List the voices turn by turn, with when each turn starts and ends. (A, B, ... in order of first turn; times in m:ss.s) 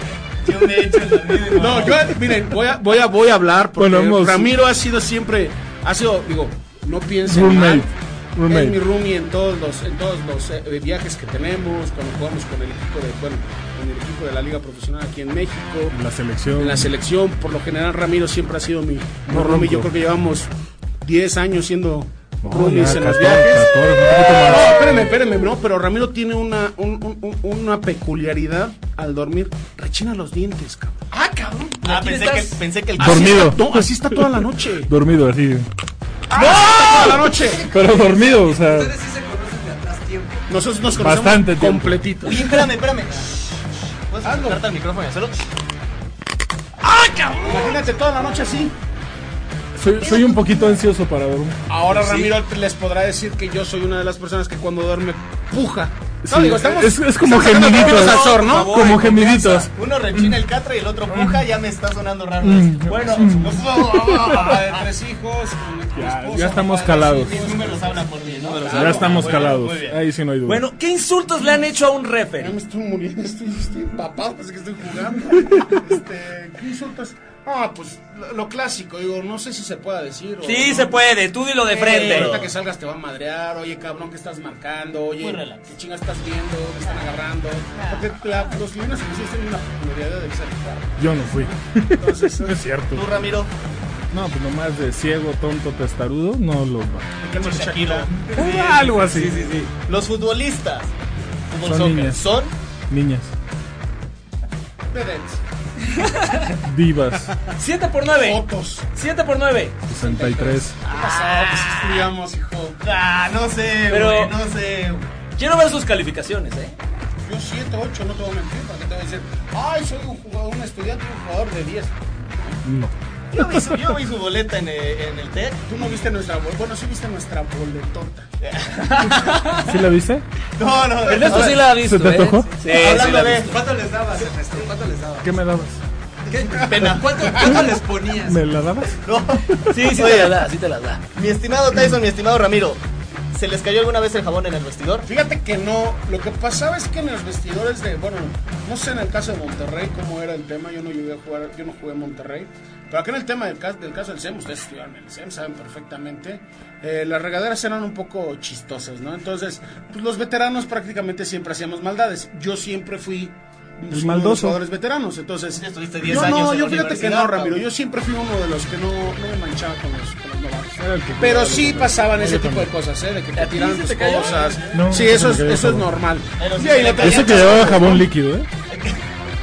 0:00.4-0:02.1 A
0:01.5-0:07.9 B
0:03.8-0:04.5 C
0:07.3-0:08.8 C
0:08.5-0:16.0 B
0:15.9-0:16.9 C
0:16.5-0:20.5 B
0:19.2-0:19.9 C
0:21.0-0:30.9 B
0:22.4-0:25.0 C
0:31.1-0:32.6 D
0:31.8-0:33.6 A
0:33.0-0:35.7 C
0:33.0-0:34.9 B
0:36.3-0:37.6 B
0:36.3-0:37.3 D
0:36.6-0:37.0 A
0:37.4-0:40.5 E
0:37.7-0:38.9 C
0:40.5-0:42.5 B
0:40.9-0:42.3 C
0:42.2-0:43.3 A
0:44.1-0:45.4 A
0:44.2-0:44.6 B
0:47.0-0:47.4 D
0:47.4-0:48.8 B
0:49.8-0:51.6 C
0:50.1-0:50.7 B
0:51.7-0:59.7 B
0:56.2-1:00.4 C
0:57.6-0:59.2 D
0:59.7-1:04.7 A
1:01.1-1:01.5 C
1:02.4-1:04.4 C
1:02.9-1:03.4 D
1:03.3-1:09.6 B
1:05.9-1:07.4 C
1:07.1-1:10.0 A
1:08.3-1:09.4 D
1:08.7-1:10.6 C
1:10.4-1:12.6 D
1:12.4-1:21.0 B
1:20.4-1:22.4 D
1:21.7-1:22.5 A
1:21.8-1:31.2 B
1:25.2-1:25.7 A
1:27.8-1:28.0 A
1:31.0-1:33.2 C
1:32.0-1:32.6 B
1:32.9-1:33.5 A
1:34.1-1:37.1 C
1:37.2-1:38.6 B
1:37.2-1:40.9 A
1:38.3-1:39.5 C
1:39.0-1:39.7 D
1:41.5-1:42.5 A
1:41.6-1:42.3 C
1:42.9-1:43.3 C
1:44.9-1:45.4 B
1:45.9-1:46.6 D
1:46.6-1:47.3 C
1:47.5-1:49.8 D
1:48.1-1:48.8 B
1:49.9-1:50.8 C
1:50.0-1:52.8 B
1:50.9-1:52.0 D
1:52.8-1:55.1 A
1:53.9-1:54.4 D
1:55.4-1:56.8 D
1:57.2-2:02.6 B
2:02.6-2:03.8 C
2:03.3-2:05.6 A
2:05.7-2:08.3 B
2:08.4-2:09.7 A
2:09.0-2:09.6 D
2:09.5-2:10.2 C
2:10.6-2:11.7 A
2:11.0-2:13.5 D
2:11.3-2:12.5 C
2:12.6-2:13.6 A
2:12.8-2:15.3 E
2:15.2-2:15.8 C
2:16.3-2:18.4 E
2:16.6-2:16.9 B
2:16.6-2:17.7 A
2:18.2-2:19.7 C
2:19.0-2:20.4 A
2:19.7-2:21.0 D
2:21.1-2:22.8 A
2:23.3-2:25.1 A
2:25.0-2:58.0 B
2:43.9-2:44.6 C
2:45.6-2:47.6 A
2:50.8-2:52.7 C
2:53.3-2:54.6 D
2:54.1-2:54.8 A
2:54.7-2:55.9 C
2:56.4-2:58.1 A
2:56.9-2:58.5 C
2:58.7-2:59.0 A